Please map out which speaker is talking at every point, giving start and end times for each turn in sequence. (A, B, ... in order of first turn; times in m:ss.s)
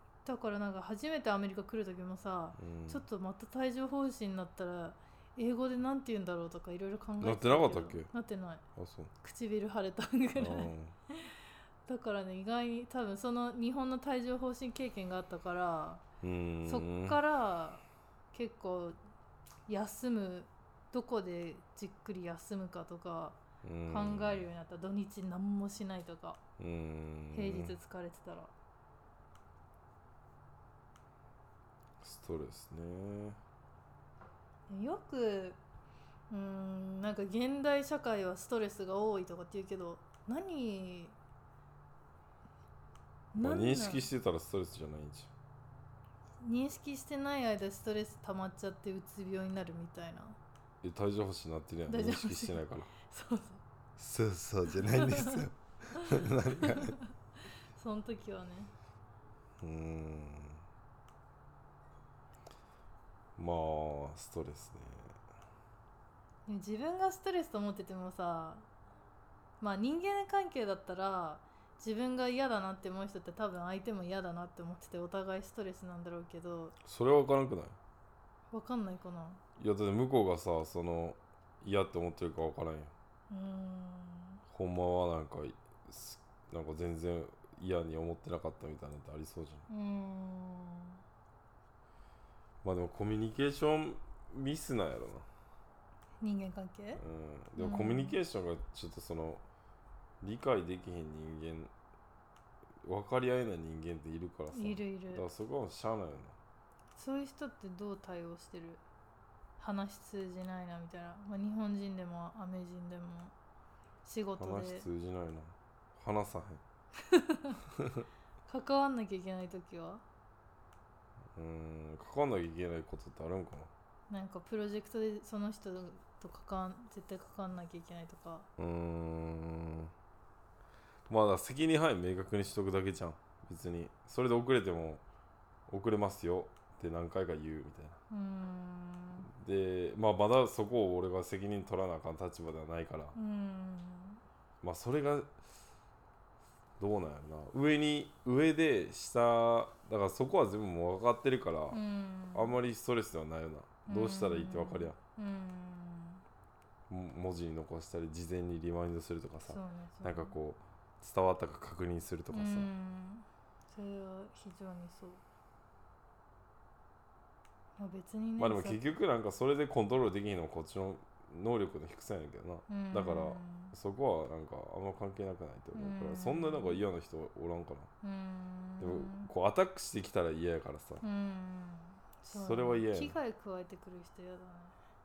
0:00.2-0:08.6 A
0:02.6-0:03.0 B
0:07.2-0:08.1 B
0:08.8-0:09.1 B
0:09.2-0:16.0 A
0:10.4-0:11.0 B
0:16.2-0:17.2 B
0:16.6-0:17.8 A
0:18.3-0:19.0 A
0:19.7-0:26.4 A
0:23.6-0:24.5 B
0:26.6-0:27.8 B
0:27.3-0:28.5 A
0:32.0-0:33.4 B
0:34.7-0:35.6 A
0:36.3-0:41.2 A
0:43.3-0:44.1 A
0:43.4-0:45.3 B
0:46.4-0:50.4 A
0:50.8-0:52.9 B
0:51.9-0:53.6 A
0:54.0-0:57.0 B
0:54.7-0:55.5 A
0:56.6-0:57.1 A
0:57.7-0:58.7 A
0:59.6-1:00.6 B
1:03.4-1:05.2 B
1:06.5-1:08.6 A
1:09.6-1:16.8 A
1:16.8-1:17.8 B
1:18.5-1:19.4 A
1:19.6-1:22.9 B
1:23.3-1:24.4 A
1:24.5-1:29.7 B
1:29.7-1:31.0 A
1:32.6-1:35.3 B
1:36.2-1:37.0 A
1:37.0-1:39.4 B
1:37.6-1:38.2 A
1:40.2-1:41.7 B
1:42.8-1:46.4 B
1:44.5-1:45.3 A
1:47.0-1:48.8 A
1:49.6-1:53.3 A
1:54.0-1:54.9 A
1:54.4-1:56.6 B
1:57.1-1:57.6 A
1:57.8-1:58.1 B
1:58.5-2:00.0 A
2:01.4-2:03.7 B
2:04.1-2:08.5 A
2:08.6-2:09.9 B
2:11.1-2:15.0 B
2:15.7-2:18.0 B
2:18.1-2:19.3 A
2:19.3-2:23.2 B
2:23.2-2:24.2 A
2:24.6-2:25.3 B
2:26.8-2:31.8 B
2:31.7-2:32.6 A
2:32.3-2:35.0 B
2:33.9-2:36.2 A
2:36.9-2:42.7 B
2:39.5-2:40.4 A
2:42.3-2:45.2 A
2:47.8-2:48.8 A
2:48.4-2:57.9 B
2:52.7-2:53.8 A
2:55.7-2:56.8 A
2:58.0-2:59.3 A
2:58.8-3:01.0 B
3:01.0-3:04.8 A
3:02.3-3:03.2 B